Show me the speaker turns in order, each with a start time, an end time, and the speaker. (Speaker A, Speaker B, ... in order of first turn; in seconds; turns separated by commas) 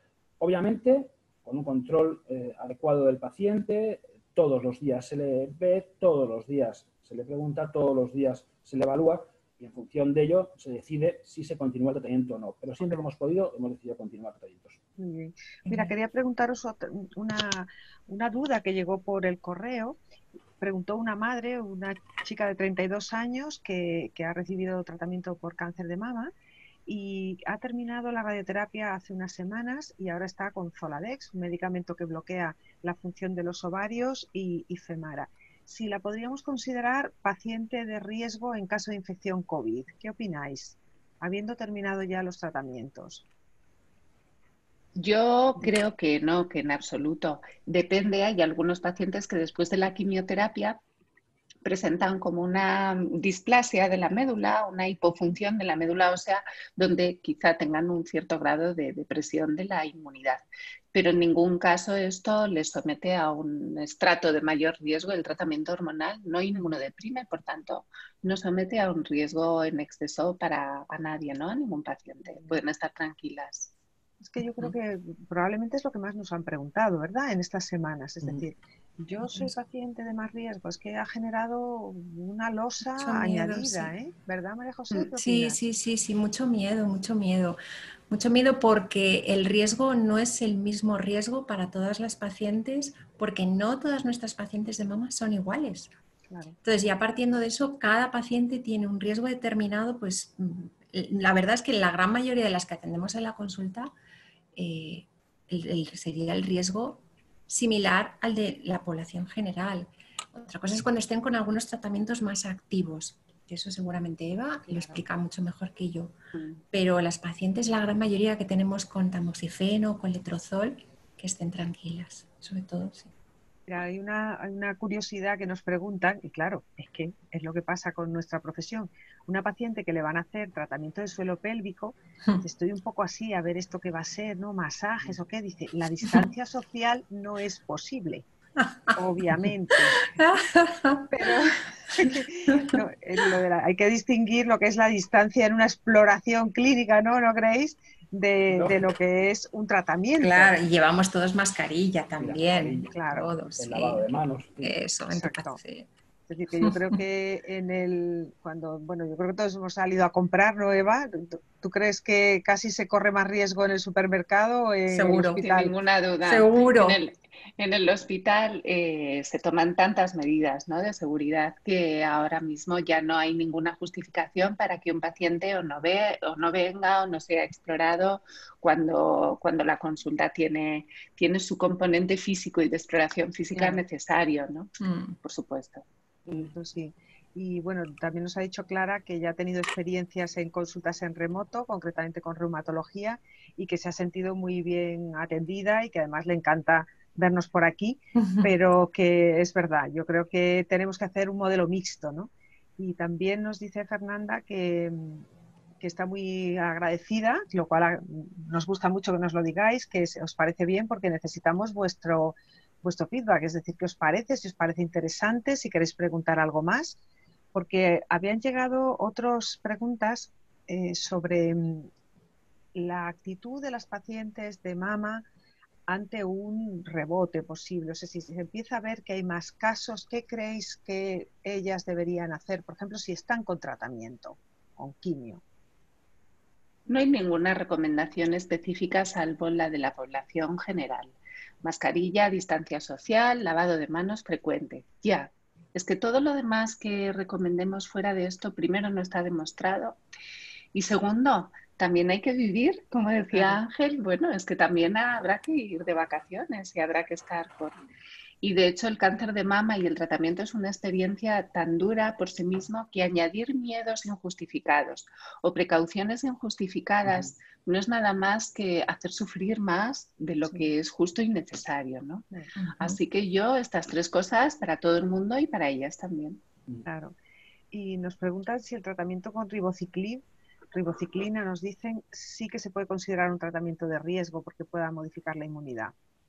Speaker A: 0.4-14.8, Speaker B: 15.0-20.0, Speaker C: 15.7-15.9, Speaker B: 20.6-26.3, Speaker B: 26.9-43.2, Speaker D: 45.0-50.8, Speaker D: 51.6-73.7, Speaker B: 72.3-72.6, Speaker B: 74.2-85.6, Speaker C: 83.0-83.9, Speaker C: 85.2-87.6, Speaker C: 88.1-95.9, Speaker B: 96.3-96.6, Speaker C: 96.6-103.9, Speaker C: 104.6-116.1, Speaker B: 114.7-115.0, Speaker C: 116.7-123.1, Speaker B: 123.7-138.3, Speaker B: 138.9-140.0, Speaker C: 140.0-141.3, Speaker B: 141.1-150.6, Speaker C: 142.0-142.8, Speaker A: 148.5-148.8, Speaker C: 150.2-155.9, Speaker A: 152.2-154.8, Speaker B: 152.8-153.3, Speaker B: 155.1-155.6, Speaker B: 156.3-165.7, Speaker C: 156.6-157.0, Speaker C: 164.9-165.4, Speaker D: 165.4-185.8, Speaker C: 166.2-167.0, Speaker B: 183.5-183.8, Speaker C: 184.8-185.2, Speaker B: 186.3-205.2, Speaker C: 198.2-198.5, Speaker B: 205.8-217.0, Speaker B: 217.5-221.9, Speaker B: 222.8-225.2, Speaker B: 225.9-235.4, Speaker D: 236.9-250.0, Speaker D: 250.7-257.8, Speaker B: 253.3-253.6, Speaker D: 258.4-276.4, Speaker A: 267.1-267.3, Speaker C: 272.6-273.0, Speaker B: 276.9-277.1, Speaker B: 277.7-285.9